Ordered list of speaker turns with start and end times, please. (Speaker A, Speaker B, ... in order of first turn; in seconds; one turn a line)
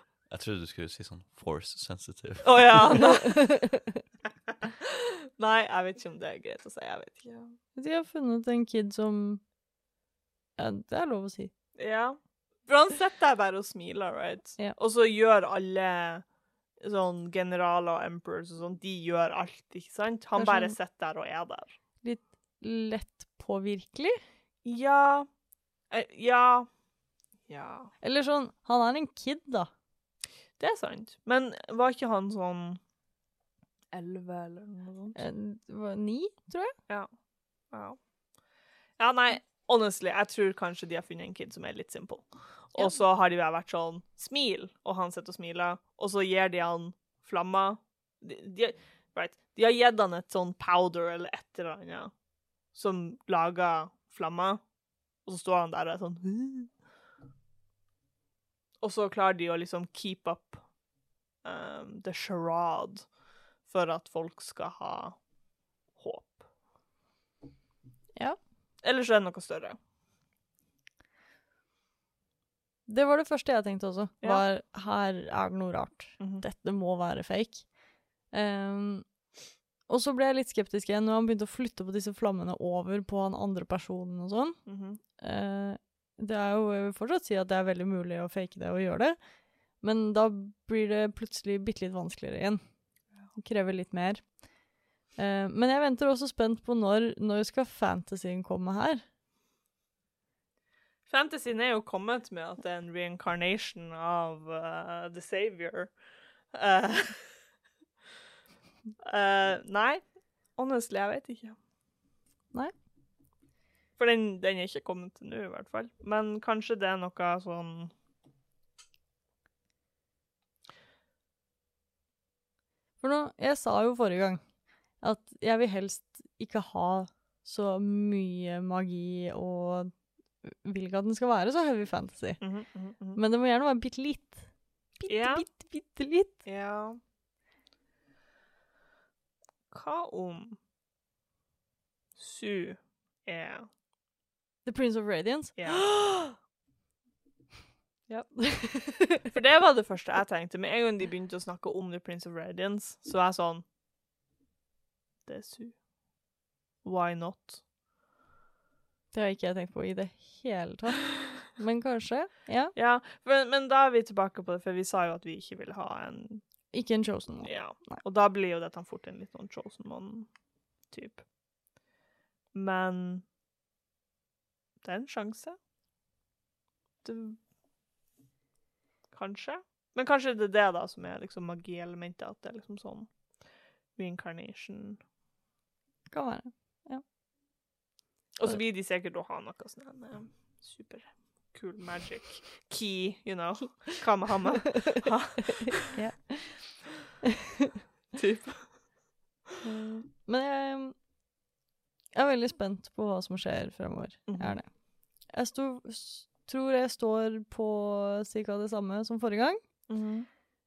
Speaker A: 0.3-3.0
Speaker B: 2.4-3.4
Speaker C: 3.1-3.9
Speaker B: 4.8-7.6
Speaker C: 7.8-9.4
Speaker C: 10.6-11.5
Speaker B: 11.8-16.2
Speaker B: 16.8-21.7
Speaker C: 20.4-20.7
Speaker C: 22.0-24.2
Speaker B: 24.6-25.3
Speaker B: 25.9-26.7
Speaker B: 27.5-27.9
Speaker C: 28.0-29.7
Speaker B: 30.6-32.8
Speaker B: 33.9-35.2
Speaker C: 35.1-36.7
Speaker B: 37.7-38.0
Speaker B: 39.0-52.1
Speaker B: 52.7-54.6
Speaker B: 55.2-56.7
Speaker B: 58.8-60.6
Speaker B: 61.4-63.1
Speaker B: 63.6-65.2
Speaker B: 66.0-66.5
Speaker B: 68.8-69.8
Speaker C: 72.9-77.7
Speaker C: 78.3-79.1
Speaker C: 79.9-84.6
Speaker B: 84.7-85.0
Speaker C: 85.2-89.2
Speaker C: 89.8-92.6
Speaker C: 93.3-94.4
Speaker C: 95.2-99.0
Speaker B: 101.1-105.9
Speaker B: 106.5-107.2
Speaker B: 109.0-110.0
Speaker B: 110.6-111.6
Speaker B: 114.0-117.9
Speaker C: 123.0-124.4
Speaker C: 125.0-132.4
Speaker B: 132.4-133.2
Speaker C: 133.1-134.5
Speaker C: 135.0-136.4
Speaker B: 135.1-135.4
Speaker B: 136.4-137.0
Speaker B: 139.7-140.6
Speaker B: 142.2-143.7
Speaker C: 144.7-146.3
Speaker B: 145.6-145.9
Speaker C: 148.1-149.3
Speaker B: 149.3-153.6
Speaker B: 155.2-155.8
Speaker B: 156.8-157.6
Speaker C: 159.1-162.7
Speaker B: 162.8-166.4
Speaker C: 166.7-168.0
Speaker B: 167.4-170.3
Speaker B: 170.9-171.2
Speaker B: 172.5-173.2
Speaker B: 174.8-175.6
Speaker B: 177.0-177.4
Speaker B: 179.1-183.1
Speaker B: 183.9-185.0
Speaker C: 186.1-187.0
Speaker B: 188.4-195.9
Speaker C: 195.6-196.9
Speaker B: 198.1-198.8
Speaker C: 199.6-200.9
Speaker C: 202.1-204.7
Speaker B: 204.3-204.6
Speaker C: 205.3-209.6
Speaker B: 209.9-210.3